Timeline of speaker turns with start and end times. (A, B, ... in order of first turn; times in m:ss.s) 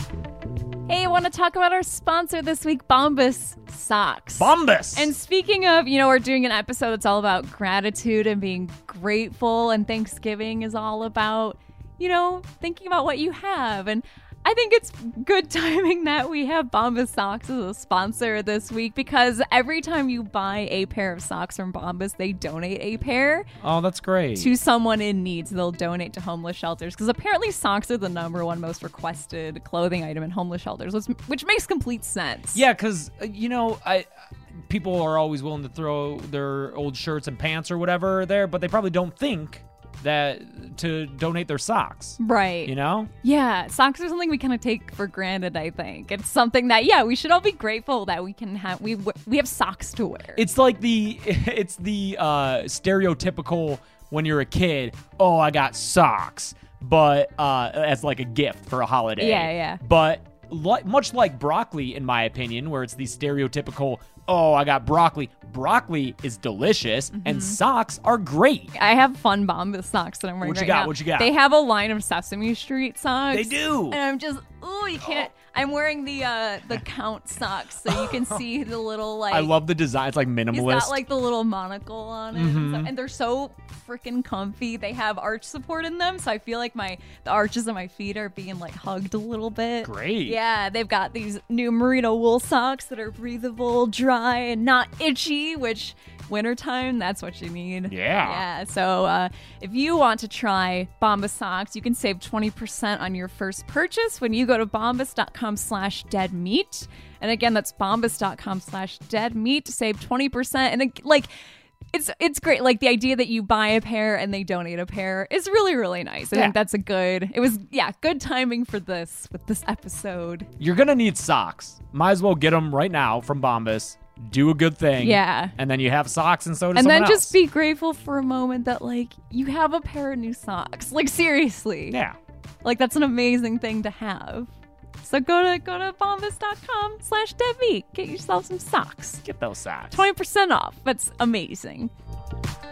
0:00.9-0:23.5 A
0:04.4-0:05.1 B
0:23.6-0:24.5 B
0:24.4-0:32.6 A
0:32.5-0:34.1 B
0:34.7-0:43.1 B
0:42.2-0:50.4 A
0:50.4-1:08.7 B
0:59.2-0:59.8 A
1:07.1-1:07.6 A
1:08.8-1:19.5 A
1:10.4-1:11.3 B
1:13.3-1:14.0 B
1:15.0-1:15.3 B
1:17.9-1:18.4 B
1:19.3-1:21.0 B
1:20.5-1:51.3 A
1:22.3-1:22.9 B
1:29.8-1:30.4 B
1:37.9-1:38.4 B
1:51.9-2:00.5 A
2:00.6-2:07.4 B
2:05.0-2:05.6 A
2:06.8-2:12.0 A
2:11.9-2:12.2 B
2:12.6-2:14.5 A
2:15.0-2:19.2 A
2:19.2-2:20.0 B
2:19.9-2:21.9 A